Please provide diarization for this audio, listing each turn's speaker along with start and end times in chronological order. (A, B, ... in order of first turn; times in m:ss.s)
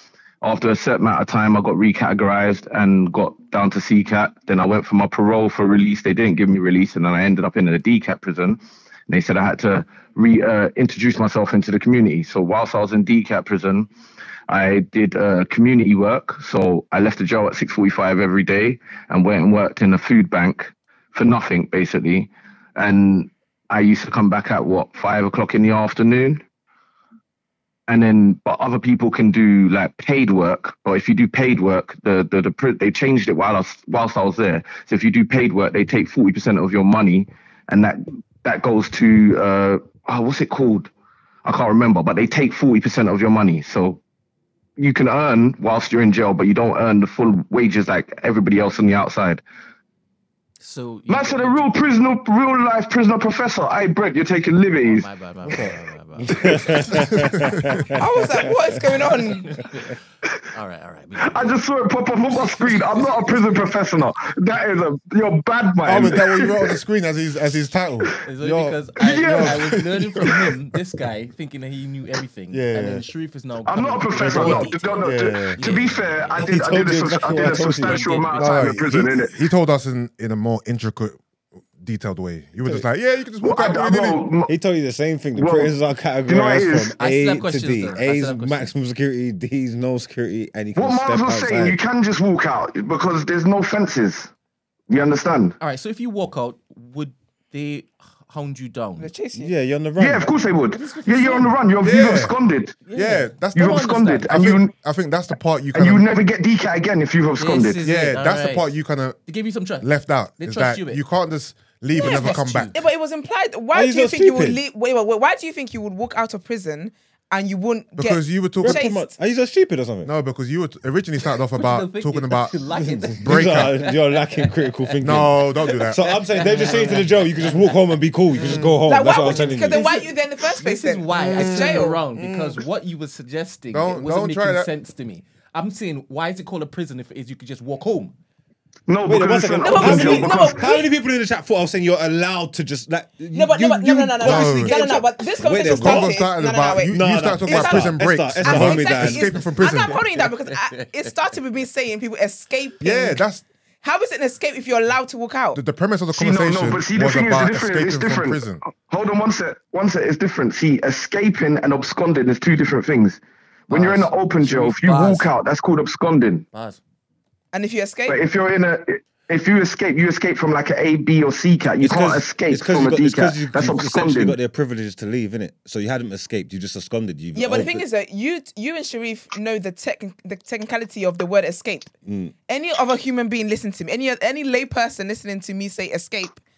0:00.4-0:13.9 A
0:14.5-0:26.4 A
0:27.9-0:40.9 A
0:41.4-0:44.0 A
0:44.8-0:49.4 A
0:50.6-0:51.7 B
0:51.1-0:55.1 A
0:54.8-0:56.8 B
0:55.4-0:58.9 C
0:57.1-0:57.8 D
0:58.0-0:59.6 E
0:59.1-1:00.0 B
1:00.5-1:01.6 B
1:01.2-1:06.8 A
1:02.4-1:03.8 B
1:05.8-1:08.1 D
1:08.2-1:16.6 B
1:08.4-1:08.7 C
1:09.0-1:09.6 A
1:09.2-1:10.6 D
1:12.5-1:13.0 C
1:13.6-1:19.4 A
1:14.2-1:15.6 C
1:16.4-1:18.1 C
1:17.2-1:18.8 B
1:18.3-1:21.2 D
1:21.8-1:24.2 D
1:23.4-1:24.5 A
1:24.5-1:31.8 C
1:25.4-1:25.7 A
1:26.3-1:27.0 A
1:27.0-1:28.7 B
1:30.7-1:34.3 A
1:34.9-1:35.6 A
1:35.6-1:39.1 B
1:39.0-1:39.5 E
1:39.4-1:40.3 C
1:40.0-1:42.8 A
1:40.7-1:41.6 B
1:41.8-1:42.4 D
1:42.9-1:44.4 B
1:42.9-1:46.1 D
1:43.6-1:44.7 A
1:45.7-1:47.8 A
1:47.4-1:48.7 B
1:47.8-1:49.2 D
1:49.3-1:51.0 B
1:49.8-1:52.7 D
1:51.9-1:52.8 B
1:52.0-1:59.1 E
1:53.7-1:54.6 C
1:58.0-1:58.8 D
1:58.6-2:00.1 C
2:00.0-2:02.6 D
2:01.5-2:08.7 B
2:02.8-2:09.9 C
2:03.2-2:03.8 D
2:05.0-2:06.1 D
2:08.4-2:08.7 D
2:08.9-2:12.0 E
2:09.7-2:18.1 B
2:11.1-2:12.6 D
2:13.7-2:14.7 D
2:18.9-2:20.7 A
2:19.0-2:26.2 C
2:19.6-2:20.9 E
2:23.3-2:33.2 E
2:24.2-2:30.0 D
2:26.8-2:29.3 C
2:29.8-2:30.7 B
2:32.8-2:33.4 D
2:33.8-2:35.6 E
2:35.5-2:38.6 D
2:36.1-2:46.4 A
2:43.7-2:45.3 B
2:46.5-2:46.8 B
2:47.5-2:48.2 E
2:48.1-2:54.4 A
2:51.8-2:57.8 C
2:57.4-3:01.9 E
3:02.0-3:02.4 C
3:02.5-3:06.4 E